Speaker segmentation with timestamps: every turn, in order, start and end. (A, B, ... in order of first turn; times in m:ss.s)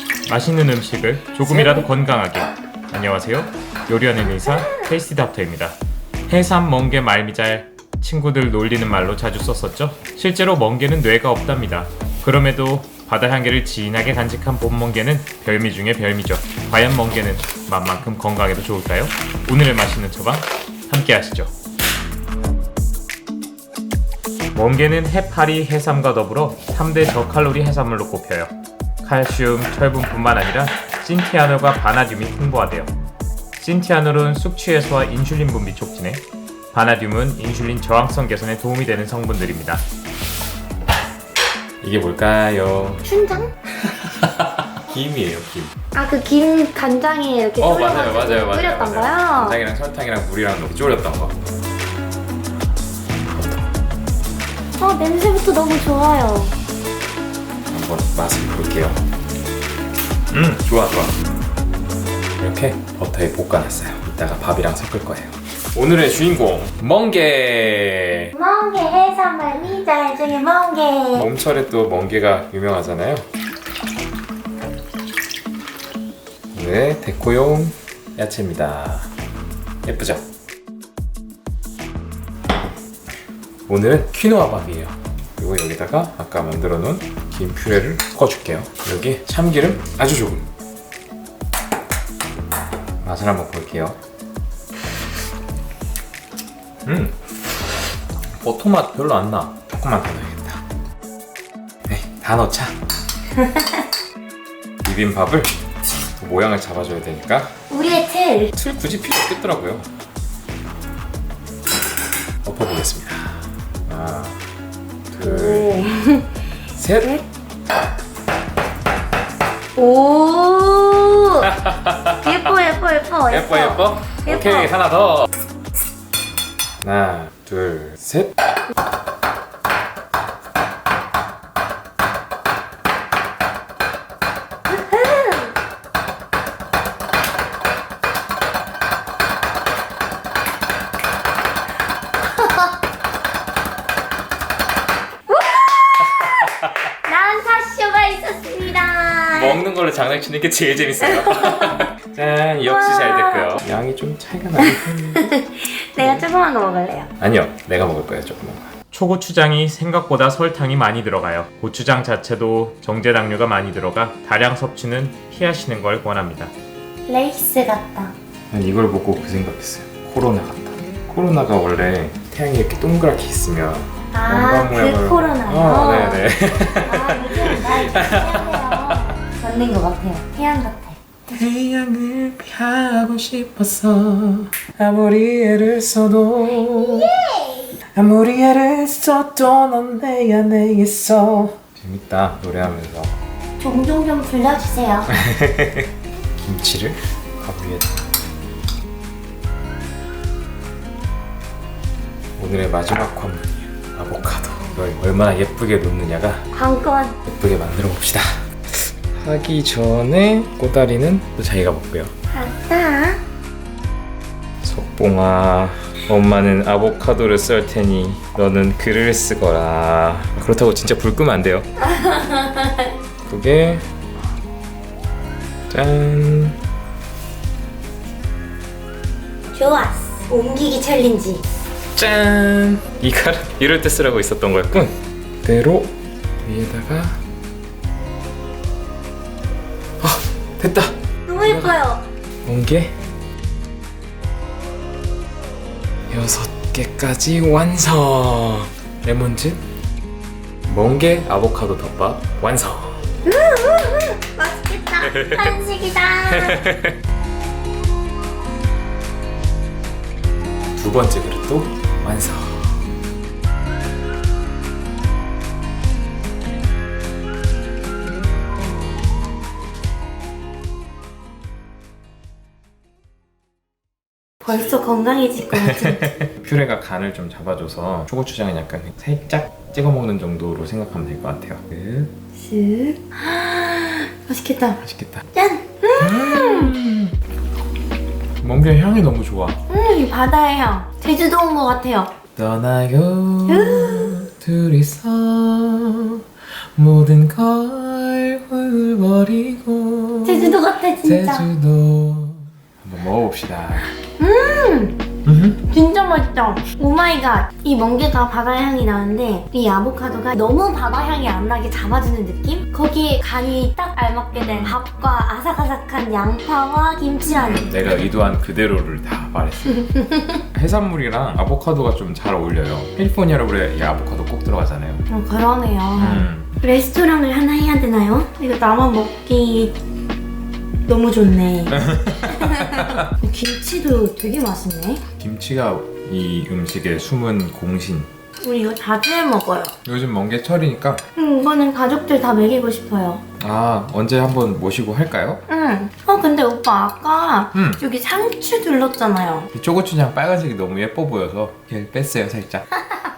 0:00.3-0:05.8 A
0:01.5-0:01.9 B
0:06.3-0:21.5 A
0:24.5-0:32.9 A
0:33.6-0:39.8 A
0:41.8-0:43.1 A
0:43.0-0:43.5 B
0:43.8-0:45.7 A
0:45.9-0:49.6 B
0:47.6-0:51.4 A
0:53.3-0:53.6 A
0:54.8-0:56.5 B
0:57.7-0:59.0 A
1:00.3-1:01.1 A
1:02.4-1:08.3 A
1:08.3-1:11.3 B
1:11.1-1:13.3 A
1:16.5-1:19.1 A
1:19.8-1:20.2 A
1:23.7-1:30.5 A
1:33.0-1:34.0 A
1:36.8-1:37.1 A
1:38.4-1:40.6 A
1:41.9-1:42.8 A
1:43.4-1:43.8 B
1:44.8-1:45.6 A
1:46.2-1:47.5 A
1:47.7-1:48.5 B
1:48.5-1:49.9 A
1:52.4-1:54.4 A
1:55.1-1:55.9 A
1:55.2-1:56.3 B
1:56.7-1:57.2 A
1:59.8-2:01.5 B
2:01.5-2:02.3 A
2:02.1-2:04.7 B
2:03.3-2:05.3 A
2:06.8-2:08.3 A
2:14.7-2:15.4 B
2:22.3-2:22.7 B
2:25.3-2:26.5 B
2:27.0-2:29.6 B
2:29.3-2:35.2 A
2:31.0-2:31.9 B
2:32.6-2:33.6 B
2:34.6-2:37.1 B
2:36.0-2:36.2 A
2:37.2-2:46.5 A
2:47.1-2:48.1 B
2:48.5-2:59.1 A
2:54.1-3:01.4 B
3:01.3-3:07.1 A
3:06.6-3:07.8 B
3:07.9-3:13.1 A
3:13.6-3:15.1 B
3:15.1-3:18.0 A
3:22.4-3:26.4 A
3:26.5-3:27.2 B
3:27.2-3:32.1 A
3:32.3-3:33.2 B
3:34.6-3:41.6 A
3:41.8-3:42.9 B
3:43.2-3:43.8 A
3:45.7-3:46.6 A
3:49.5-3:51.4 B
3:51.9-3:55.9 A
3:56.4-3:57.2 A
4:00.0-4:01.8 A
4:01.3-4:02.0 B
4:02.4-4:03.0 A
4:06.1-4:09.6 A
4:10.6-4:13.0 A
4:13.2-4:16.6 B
4:15.0-4:15.6 A
4:16.3-4:16.9 A
4:20.8-4:22.8 A
4:34.4-4:36.2 B
4:35.6-4:42.1 A
4:42.3-4:44.8 B
4:44.8-4:45.2 A
4:45.3-4:46.7 B
4:46.0-4:47.1 A
4:48.4-4:49.6 A
4:49.7-4:52.2 B
4:52.4-4:56.2 A
4:53.5-4:54.3 B
4:56.7-5:03.9 A
5:00.2-5:01.5 B
5:04.2-5:05.0 B
5:05.2-5:05.6 A
5:05.7-5:18.0 B
5:14.3-5:14.8 A
5:17.3-5:19.9 A
5:19.8-5:20.4 B
5:20.5-5:25.0 A
5:25.1-5:29.8 B
5:26.0-5:26.5 A
5:30.9-5:35.0 B
5:31.7-5:33.1 A
5:35.2-5:38.1 A
5:38.4-5:39.7 B
5:39.8-5:41.0 A
5:41.2-5:43.2 B
5:43.4-5:45.4 A
5:45.5-5:49.5 B
5:47.5-5:47.8 A
5:49.5-5:52.6 A